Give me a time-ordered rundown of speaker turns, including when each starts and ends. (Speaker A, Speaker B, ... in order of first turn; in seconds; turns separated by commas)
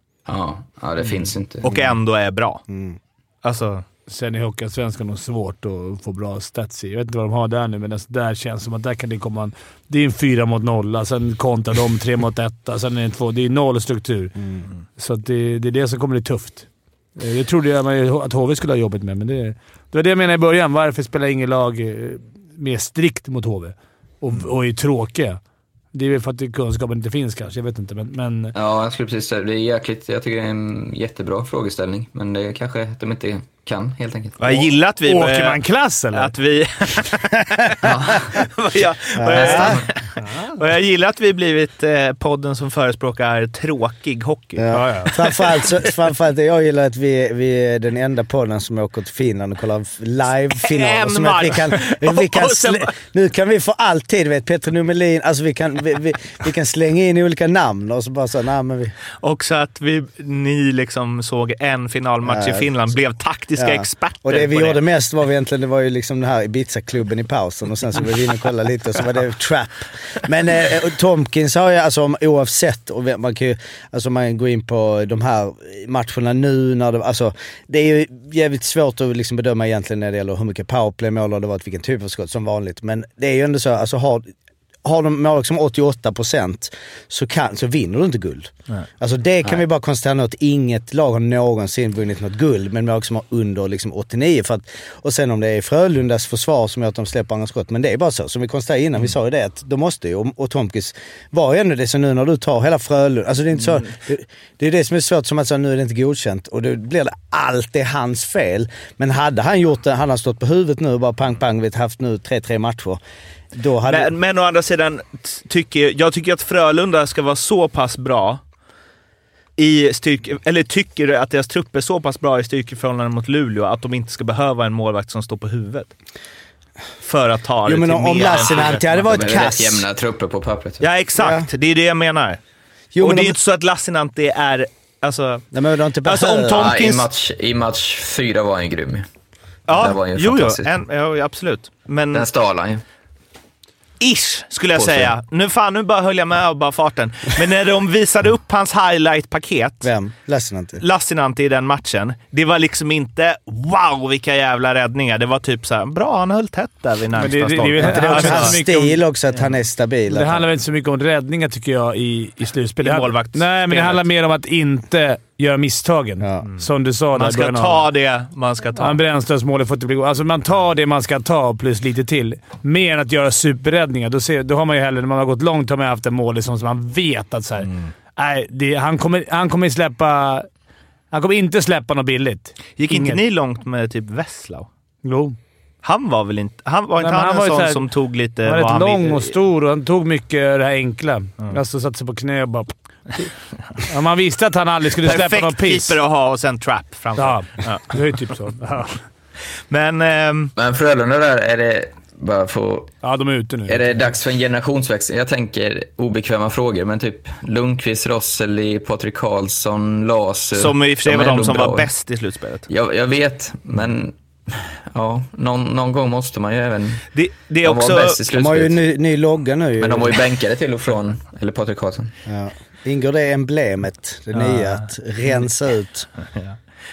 Speaker A: 0.3-1.6, Speaker B: 1.6-2.6, Speaker C: 2.7-3.0, Speaker B: 3.4-3.8, Speaker D: 4.1-14.4, Speaker D: 15.0-25.4, Speaker D: 25.9-28.5, Speaker A: 28.5-34.7, Speaker B: 34.4-35.6, Speaker D: 35.0-36.3, Speaker B: 36.1-45.4, Speaker A: 37.8-38.4, Speaker C: 39.2-39.8, Speaker A: 39.3-39.9, Speaker C: 44.6-58.9, Speaker D: 44.7-45.2, Speaker B: 50.6-52.9, Speaker B: 59.2-64.8, Speaker C: 62.2-62.6, Speaker C: 63.6-84.3, Speaker C: 84.8-113.0, Speaker C: 113.5-114.1, Speaker B: 113.9-118.4, Speaker B: 119.6-125.9, Speaker B: 127.0-129.3, Speaker C: 127.7-129.8, Speaker A: 128.4-130.8, Speaker B: 130.8-132.4, Speaker C: 131.2-131.5, Speaker C: 132.9-133.4, Speaker B: 133.0-135.4, Speaker C: 135.5-136.7, Speaker B: 136.0-137.1, Speaker A: 136.5-139.1, Speaker B: 139.7-142.3, Speaker A: 139.7-140.7, Speaker A: 142.1-142.8, Speaker B: 144.0-149.9, Speaker A: 144.7-145.1, Speaker C: 149.8-150.8, Speaker B: 150.8-158.6, Speaker D: 157.2-159.0, Speaker C: 157.8-160.5, Speaker D: 160.1-167.9, Speaker B: 162.8-164.0, Speaker B: 167.1-169.0, Speaker D: 168.8-180.5, Speaker D: 181.1-183.2, Speaker B: 182.8-184.7, Speaker D: 185.0-185.4, Speaker B: 185.8-189.3, Speaker D: 187.0-187.9, Speaker D: 188.4-196.0, Speaker B: 195.0-198.0, Speaker D: 197.2-199.0, Speaker B: 199.7-200.5, Speaker A: 200.6-202.9, Speaker D: 203.0-203.9, Speaker A: 203.7-211.9, Speaker B: 210.5-212.7, Speaker A: 212.7-217.1, Speaker B: 217.1-218.2, Speaker A: 217.6-218.8, Speaker C: 218.3-220.2, Speaker A: 219.8-222.1, Speaker C: 222.2-226.1, Speaker B: 224.3-224.9